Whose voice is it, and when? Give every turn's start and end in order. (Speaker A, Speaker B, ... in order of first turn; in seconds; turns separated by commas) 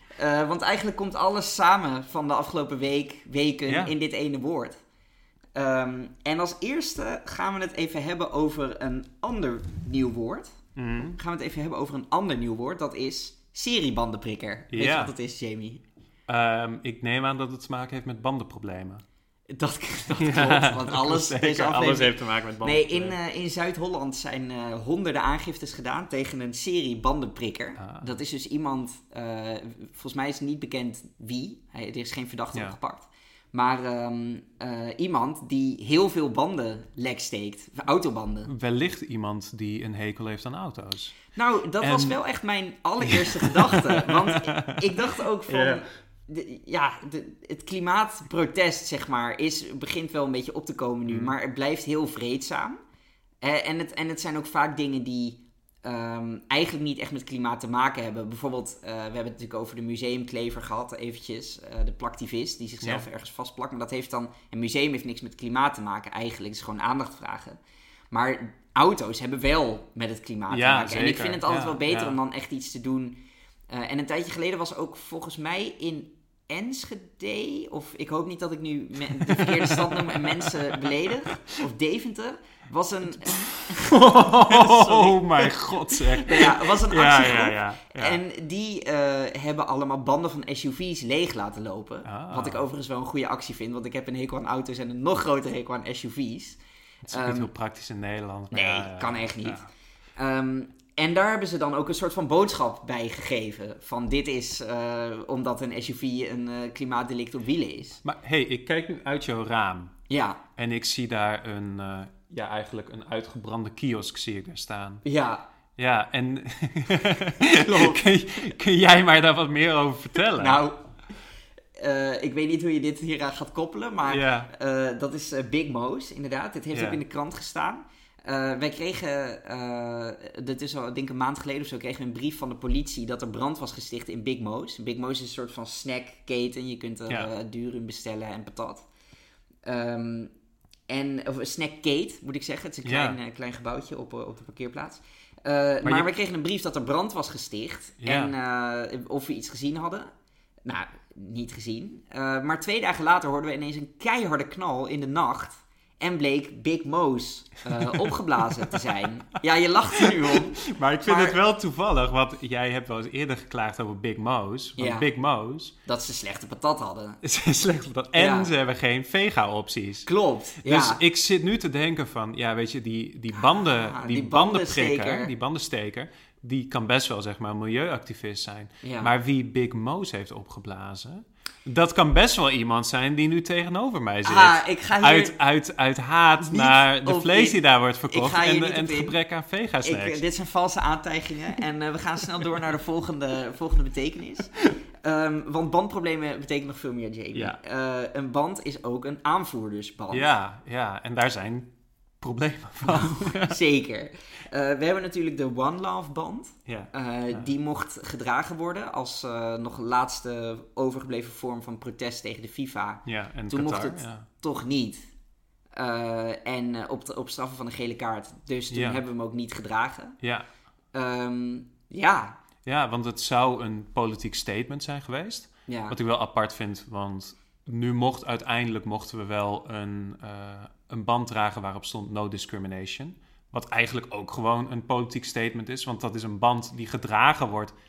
Speaker A: 0.2-4.8, Speaker B: 3.7-3.9, Speaker A: 5.5-10.6, Speaker B: 10.8-11.2, Speaker A: 11.2-15.8, Speaker B: 14.7-15.1, Speaker B: 16.3-19.0, Speaker A: 19.5-38.5, Speaker B: 20.2-23.2, Speaker B: 27.8-28.1, Speaker B: 38.5-41.2, Speaker A: 41.3-52.8, Speaker B: 41.8-42.2, Speaker B: 43.0-45.8, Speaker B: 51.0-51.3, Speaker A: 53.4-67.6, Speaker A: 68.1-73.2, Speaker B: 70.5-72.2, Speaker A: 73.7-97.5, Speaker B: 79.3-81.0, Speaker B: 83.4-88.2, Speaker B: 92.0-92.6, Speaker B: 97.0-99.7, Speaker A: 98.5-99.7, Speaker A: 100.2-108.0, Speaker B: 108.0-109.9, Speaker A: 110.1-110.4, Speaker B: 110.6-115.0, Speaker A: 115.0-115.4, Speaker B: 115.8-120.6, Speaker A: 117.6-118.0, Speaker A: 120.4-120.9, Speaker A: 121.8-138.8, Speaker B: 124.1-124.5, Speaker B: 126.7-127.0, Speaker A: 139.6-140.3, Speaker A: 140.9-150.1, Speaker B: 142.8-143.2, Speaker B: 145.8-146.1, Speaker B: 148.0-148.3, Speaker A: 150.6-161.4, Speaker B: 160.3-165.7, Speaker A: 164.8-165.0, Speaker A: 165.8-167.2, Speaker B: 167.2-170.1, Speaker A: 168.2-168.5, Speaker A: 170.1-171.0, Speaker B: 170.6-190.2, Speaker A: 173.4-175.3, Speaker A: 178.8-179.1, Speaker A: 184.2-185.3, Speaker A: 186.4-189.2, Speaker A: 189.8-194.5, Speaker A: 195.0-200.3, Speaker B: 200.1-203.6, Speaker A: 202.9-215.0, Speaker B: 206.7-207.5, Speaker B: 213.1-214.2, Speaker A: 215.7-220.2, Speaker B: 218.7-219.0, Speaker B: 220.2-220.4, Speaker A: 220.9-222.3, Speaker B: 222.6-237.7, Speaker A: 225.7-225.9